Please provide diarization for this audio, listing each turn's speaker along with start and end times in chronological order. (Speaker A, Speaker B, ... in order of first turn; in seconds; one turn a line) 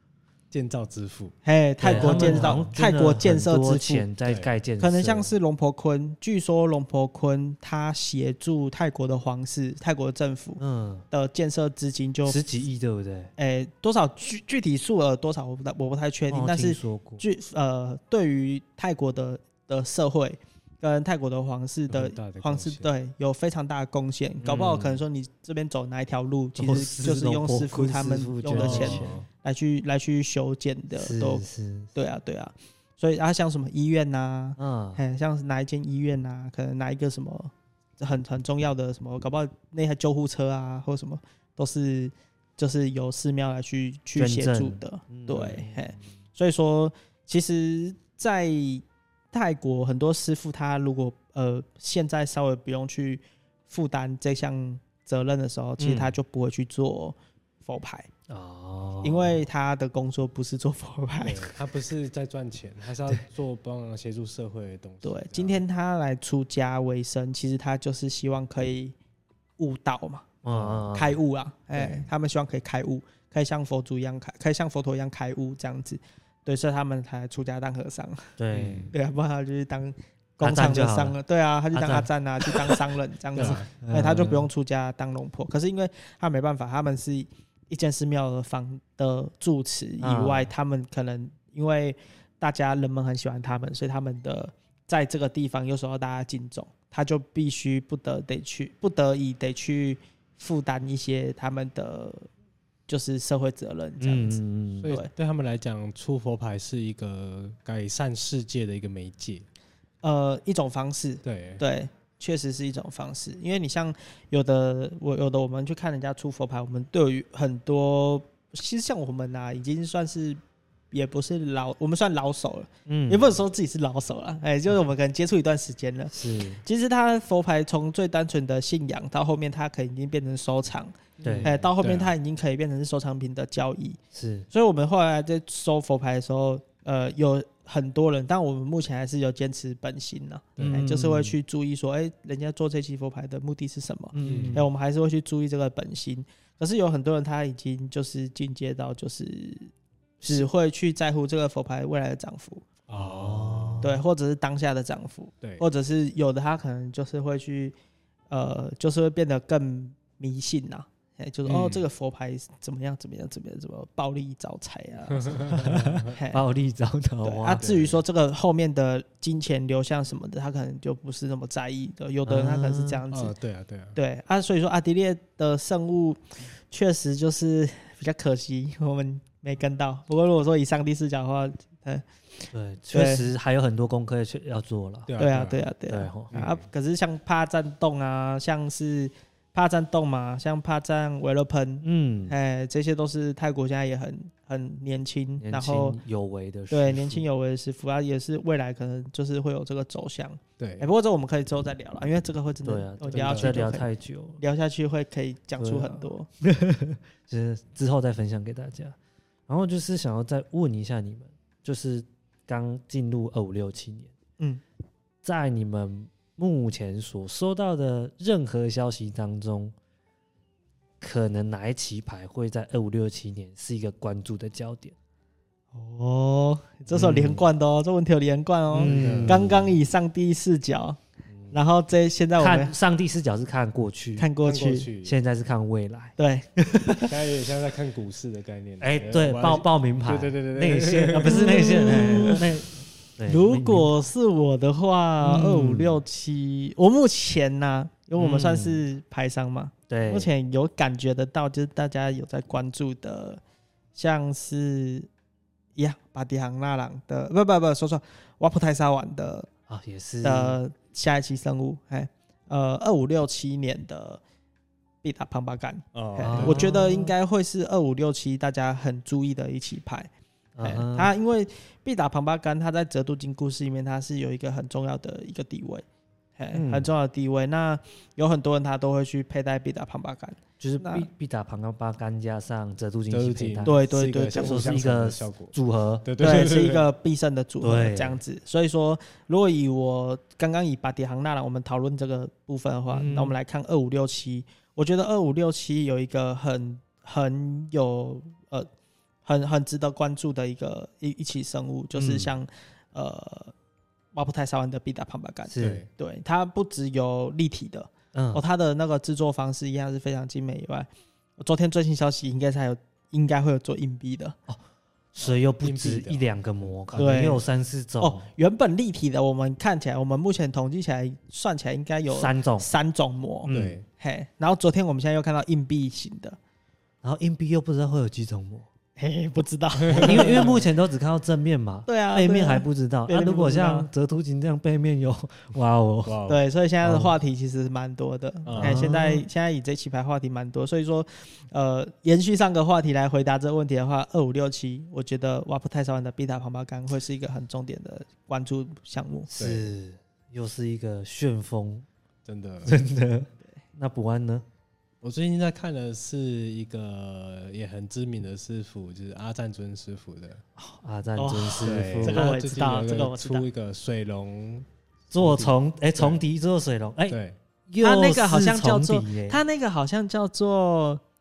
Speaker A: 0.5-1.3
Speaker B: 1.4-4.0
Speaker C: 1.8-5.3
Speaker A: 1.8-2.7
Speaker B: 4.8-10.6
Speaker C: 10.6-11.0
Speaker B: 11.1-12.4
Speaker C: 12.2-13.3
Speaker B: 13.4-58.1
Speaker C: 16.3-17.2
Speaker A: 21.9-22.9
Speaker A: 24.4-24.9
Speaker C: 24.5-25.0
Speaker C: 26.6-29.1
Speaker A: 28.6-29.3
Speaker C: 30.9-31.9
Speaker C: 34.6-35.0
Speaker C: 44.1-45.8
Speaker A: 45.3-45.6
Speaker C: 55.8-56.1
Speaker C: 58.3-59.4
Speaker B: 59.0-61.5
Speaker A: 61.2-65.6
Speaker B: 65.0-68.9
Speaker B: 69.6-70.3
Speaker C: 70.4-71.2
Speaker A: 70.5-70.9
Speaker B: 70.9-78.3
Speaker A: 71.7-72.0
Speaker C: 78.4-78.9
Speaker A: 78.5-78.9
Speaker B: 78.9-102.3
Speaker C: 80.4-81.2
Speaker C: 81.7-82.8
Speaker A: 83.3-83.7
Speaker C: 83.5-84.5
Speaker C: 90.0-90.5
Speaker B: 102.9-105.1
Speaker C: 104.0-104.9
Speaker A: 104.8-109.5
Speaker B: 110.0-120.4
Speaker A: 111.2-111.6
Speaker B: 120.9-134.0
Speaker C: 122.9-123.3
Speaker C: 126.1-126.6
Speaker A: 131.2-132.1
Speaker C: 131.2-131.5
Speaker C: 134.1-134.5
Speaker B: 134.5-149.7
Speaker A: 140.6-140.8
Speaker C: 140.6-141.3
Speaker C: 144.1-144.7
Speaker A: 144.2-144.6
Speaker C: 150.2-150.5
Speaker B: 150.3-152.7
Speaker A: 152.9-153.8
Speaker C: 153.0-154.0
Speaker B: 153.8-157.8
Speaker B: 158.3-165.4
Speaker A: 161.4-161.8
Speaker A: 165.1-166.1
Speaker C: 165.5-167.6
Speaker B: 166.1-166.4
Speaker B: 167.2-173.3
Speaker A: 167.6-168.0
Speaker C: 172.2-173.0
Speaker A: 173.1-174.0
Speaker B: 173.9-183.3
Speaker C: 182.5-185.1
Speaker A: 185.1-185.6
Speaker B: 185.2-196.0
Speaker C: 185.9-186.4
Speaker A: 186.3-186.7
Speaker C: 191.8-192.3
Speaker C: 195.4-197.2
Speaker B: 196.7-206.3
Speaker A: 200.6-200.9
Speaker C: 202.6-204.4
Speaker A: 203.1-203.7
Speaker C: 205.6-208.9
Speaker C: 209.5-214.1
Speaker C: 215.2-219.7
Speaker C: 221.0-224.9
Speaker B: 225.7-231.0
Speaker C: 226.9-227.4
Speaker C: 228.7-229.7
Speaker A: 228.9-229.7
Speaker B: 231.5-232.7
Speaker C: 232.4-234.3
Speaker B: 234.2-234.9
Speaker A: 234.4-235.2
Speaker C: 235.0-236.1
Speaker B: 236.2-237.3
Speaker A: 237.0-242.4
Speaker C: 238.8-243.9
Speaker B: 241.2-242.4
Speaker B: 243.2-253.4
Speaker C: 245.2-246.0
Speaker C: 248.2-248.8
Speaker C: 249.9-250.3
Speaker B: 253.9-255.1
Speaker B: 255.8-259.5
Speaker C: 259.7-260.6
Speaker B: 260.2-264.2
Speaker B: 265.0-270.1
Speaker A: 265.9-266.8
Speaker C: 266.2-267.1
Speaker C: 270.6-271.1
Speaker B: 270.6-275.8
Speaker B: 276.4-281.1
Speaker C: 276.5-276.9
Speaker C: 280.6-286.1
Speaker A: 283.1-286.9
Speaker B: 283.6-284.7
Speaker B: 286.2-298.7
Speaker C: 287.6-288.2
Speaker C: 292.9-293.3
Speaker B: 299.2-303.5
Speaker C: 301.9-302.3
Speaker B: 304.1-314.4
Speaker C: 305.5-305.8
Speaker A: 305.6-305.9
Speaker C: 308.1-308.4
Speaker C: 315.1-318.2
Speaker A: 315.2-317.0
Speaker B: 316.9-317.4
Speaker B: 318.0-326.4
Speaker C: 322.1-322.7
Speaker C: 323.4-323.8
Speaker A: 323.5-323.8
Speaker C: 327.0-328.7
Speaker B: 329.0-330.6
Speaker A: 329.8-330.6
Speaker C: 329.9-336.2
Speaker B: 331.9-333.9
Speaker A: 336.1-336.4
Speaker B: 336.3-349.3
Speaker C: 336.8-337.1
Speaker A: 338.4-338.8
Speaker C: 338.6-339.2
Speaker C: 349.3-351.9
Speaker A: 349.4-349.7
Speaker A: 352.2-352.8
Speaker C: 352.6-354.4
Speaker A: 355.0-360.4
Speaker C: 360.6-362.2
Speaker B: 361.2-363.5
Speaker A: 361.6-364.7
Speaker C: 365.1-369.4
Speaker A: 365.2-366.2
Speaker A: 367.1-367.4
Speaker B: 367.8-371.0